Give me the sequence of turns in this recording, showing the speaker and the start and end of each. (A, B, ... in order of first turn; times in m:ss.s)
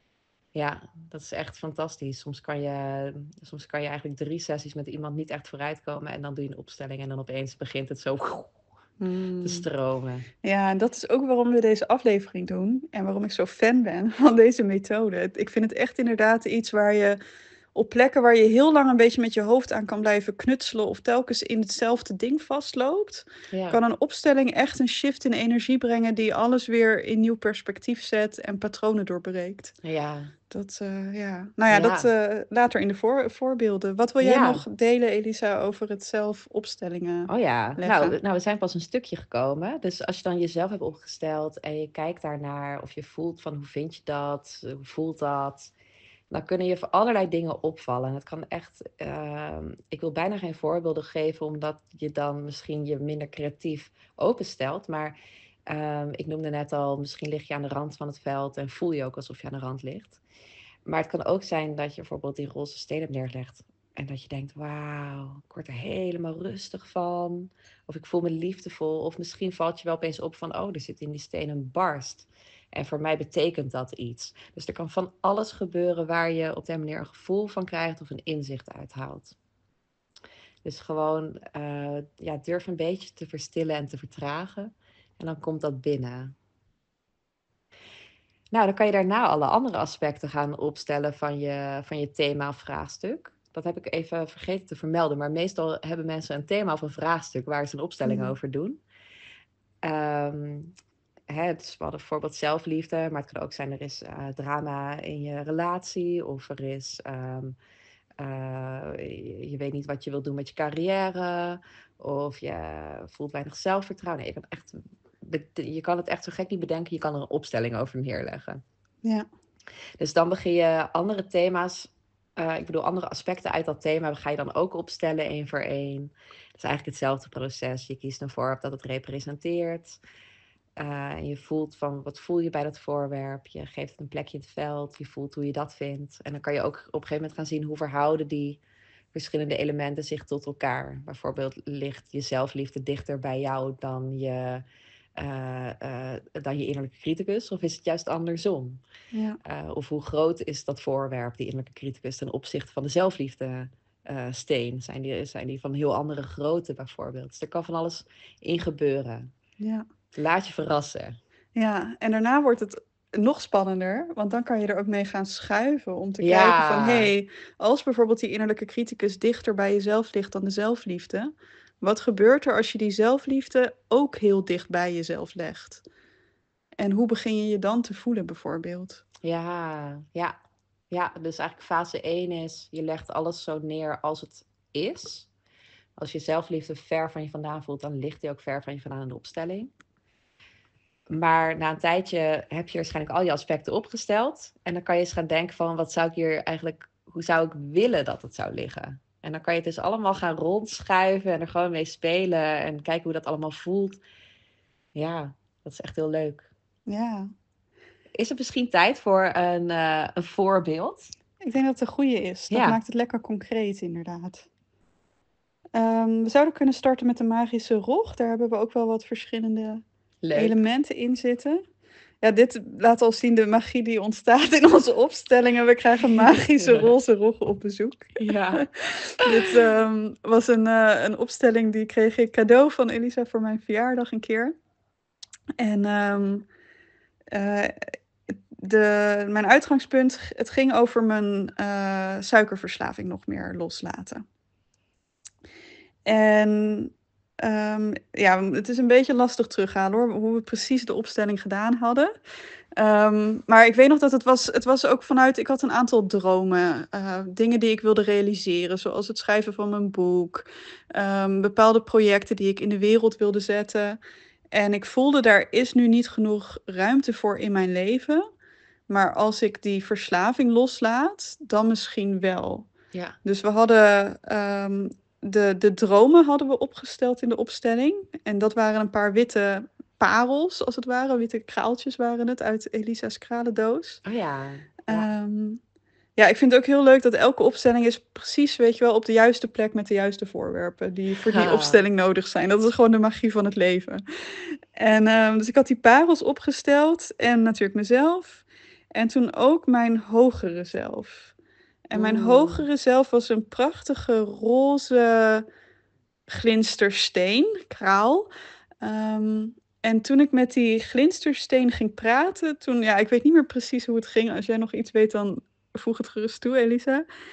0:00.5-0:08.5 A
0:09.0-0:09.6 B
0:09.4-0:10.3 A
0:10.4-0:17.2 B
0:17.7-0:29.7 B
0:23.5-0:23.8 A
0:29.8-0:30.3 A
0:30.5-0:38.2 B
0:31.7-0:32.1 A
0:34.2-0:34.6 A
0:37.3-0:45.7 A
0:46.3-0:55.2 A
0:55.7-1:00.2 A
1:00.8-1:19.3 A
1:20.6-1:26.3 A
1:28.5-1:38.8 A
1:38.0-1:38.3 B
1:39.8-1:40.7 A
1:41.3-1:47.6 A
1:48.2-1:58.6 A
2:00.0-2:10.0 A
2:10.8-2:18.6 A
2:19.1-2:24.6 A
2:25.2-2:28.8 A
2:29.1-2:29.4 B
2:29.4-2:39.3 A
2:39.6-2:39.8 B
2:40.1-2:41.2 A
2:41.6-2:55.8 B
2:46.2-2:47.1 A
2:56.8-2:59.0 B
2:59.2-3:00.4 A
3:00.9-3:05.3 A
3:06.0-3:09.7 A
3:11.1-3:24.0 A
3:24.9-3:26.5 A
3:26.9-3:27.3 B
3:28.2-3:31.1 A
3:31.4-3:34.5 B
3:32.5-3:32.8 A
3:35.7-3:39.8 B
3:40.2-3:40.6 A
3:40.4-3:41.6 B
3:42.2-3:54.5 B
3:46.6-3:46.9 A
3:48.2-3:48.7 A
3:49.2-3:49.6 A
3:55.6-3:56.4 B
3:57.3-3:57.7 B
3:58.3-4:04.2 B
4:06.0-4:12.1 B
4:12.8-4:24.0 B
4:24.5-4:28.2 B
4:28.9-4:32.7 B
4:33.2-4:44.0 B
4:44.0-4:45.1 A
4:44.9-4:45.6 B
4:46.2-4:58.4 B
4:51.2-4:51.8 A
4:58.9-5:01.3 B
5:01.9-5:05.4 B
5:01.9-5:02.7 A
5:06.3-5:08.3 B
5:08.8-5:17.0 B